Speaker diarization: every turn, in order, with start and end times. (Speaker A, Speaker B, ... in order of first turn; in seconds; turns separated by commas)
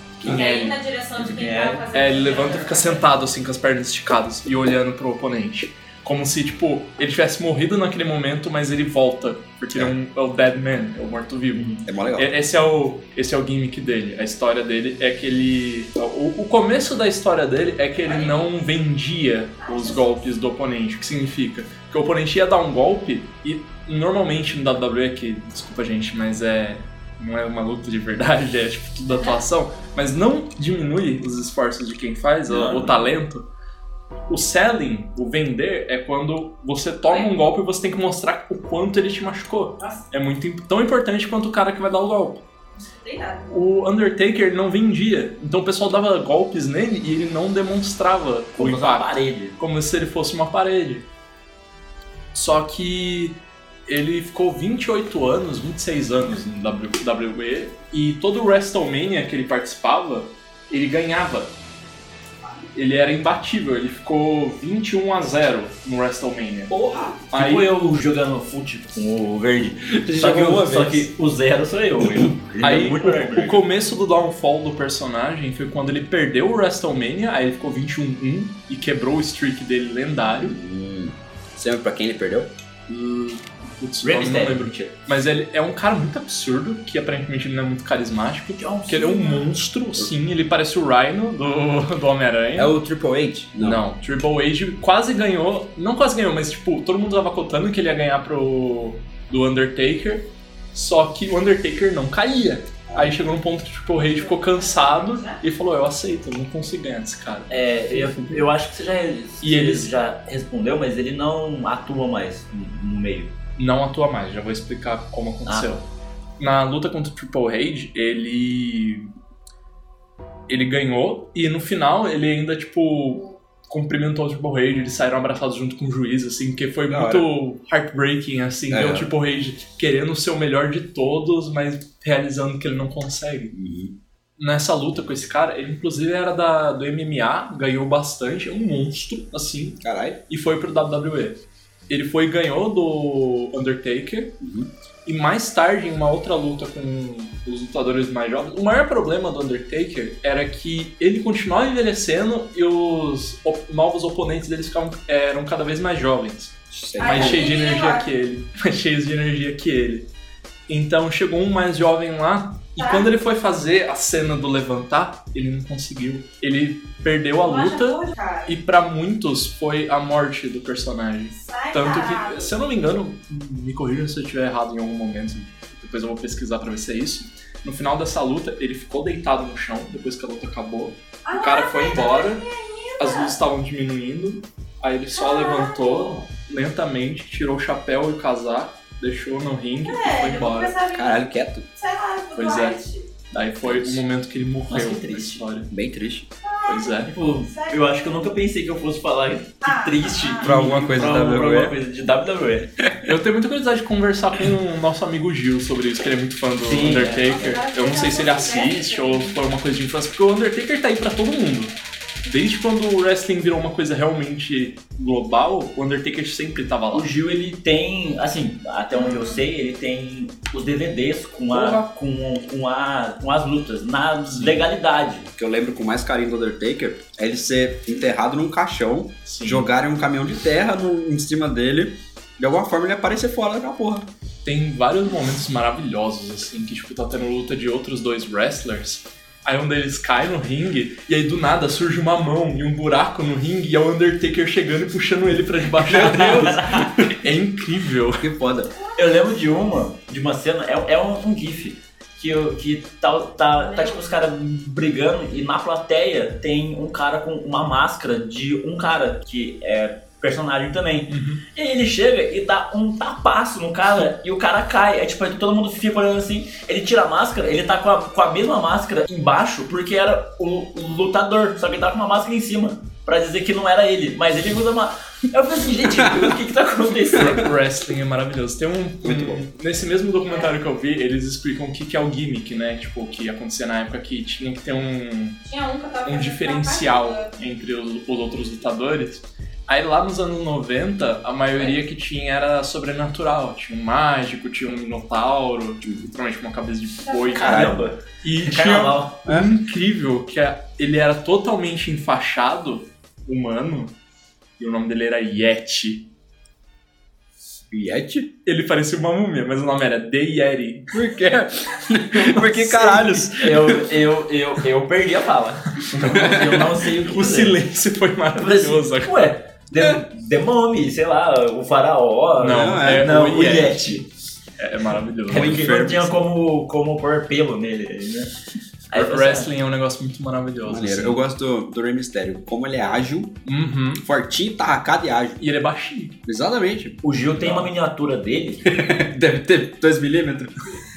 Speaker A: 0.2-0.6, Speaker B: 0.2-0.8, Speaker C: 0.3-3.1, Speaker D: 1.2-1.8, Speaker B: 1.9-33.5, Speaker D: 11.5-11.8, Speaker A: 11.8-12.4, Speaker C: 18.0-18.5, Speaker C: 19.6-20.1, Speaker D: 32.5-32.9, Speaker B: 34.3-42.4, Speaker C: 42.8-43.5, Speaker B: 43.5-51.1, Speaker D: 48.6-49.6, Speaker B: 52.3-61.5, Speaker B: 62.8-66.8, Speaker A: 66.7-67.2, Speaker B: 67.3-67.7, Speaker D: 67.3-73.6, Speaker A: 69.9-71.1, Speaker B: 72.6-80.6, Speaker A: 80.4-82.5, Speaker B: 82.9-92.8, Speaker D: 84.0-85.0, Speaker D: 88.6-89.5, Speaker A: 92.6-93.8, Speaker B: 93.6-108.2, Speaker A: 102.9-103.2, Speaker C: 103.9-105.4, Speaker D: 107.5-113.3, Speaker B: 109.4-109.9, Speaker B: 113.6-115.9, Speaker D: 115.5-115.8, Speaker B: 116.4-119.1, Speaker B: 120.5-133.5, Speaker A: 126.9-127.3, Speaker A: 128.7-129.1, Speaker A: 133.5-133.9, Speaker B: 134.4-144.4, Speaker A: 139.8-140.2, Speaker A: 144.4-144.7, Speaker B: 145.1-160.1, Speaker A: 156.7-157.5, Speaker C: 157.0-158.1, Speaker B: 160.7-182.5, Speaker C: 162.8-163.1, Speaker C: 167.4-168.5, Speaker C: 171.4-172.5, Speaker C: 181.2-183.3, Speaker B: 183.0-190.8, Speaker C: 185.2-186.2, Speaker C: 189.9-191.2, Speaker A: 190.9-191.7, Speaker C: 191.8-193.1, Speaker B: 192.4-192.8, Speaker B: 193.3-195.7, Speaker A: 193.6-194.0, Speaker D: 194.7-195.4, Speaker A: 195.7-196.3, Speaker C: 196.4-198.2, Speaker B: 196.7-197.1, Speaker D: 197.1-202.7, Speaker C: 199.6-200.6, Speaker A: 200.4-201.8, Speaker B: 203.0-217.1, Speaker D: 206.6-207.4, Speaker C: 207.2-209.3, Speaker D: 216.9-225.3, Speaker C: 218.9-219.4, Speaker B: 221.5-221.8, Speaker B: 224.3-224.7, Speaker A: 225.4-234.1, Speaker B: 229.3-229.7, Speaker B: 234.4-248.3, Speaker D: 245.8-247.0, Speaker A: 245.9-247.1, Speaker A: 248.2-248.7, Speaker C: 248.8-249.1, Speaker D: 249.0-277.4, Speaker C: 253.6-254.0, Speaker B: 261.1-261.4, Speaker B: 277.1-285.4, Speaker A: 279.0-279.4, Speaker C: 285.4-287.3, Speaker B: 286.1-303.9, Speaker A: 295.8-296.1, Speaker C: 297.1-297.6, Speaker D: 297.3-299.2, Speaker A: 297.4-297.8, Speaker A: 299.3-299.5, Speaker B: 304.6-306.1, Speaker A: 307.7-308.3, Speaker B: 308.4-311.0, Speaker A: 310.9-313.9, Speaker B: 312.1-313.3, Speaker D: 313.4-317.6, Speaker B: 315.9-319.3, Speaker A: 316.1-316.4, Speaker D: 318.4-324.1, Speaker B: 322.4-324.1, Speaker A: 322.5-323.2, Speaker B: 324.6-325.8, Speaker A: 325.3-326.1, Speaker D: 325.3-328.3, Speaker D: 328.9-329.5, Speaker B: 328.9-331.2, Speaker A: 330.6-333.4, Speaker B: 333.5-334.1, Speaker A: 334.0-335.4, Speaker B: 335.4-336.2, Speaker A: 336.3-337.0, Speaker D: 337.0-338.7, Speaker A: 338.7-340.6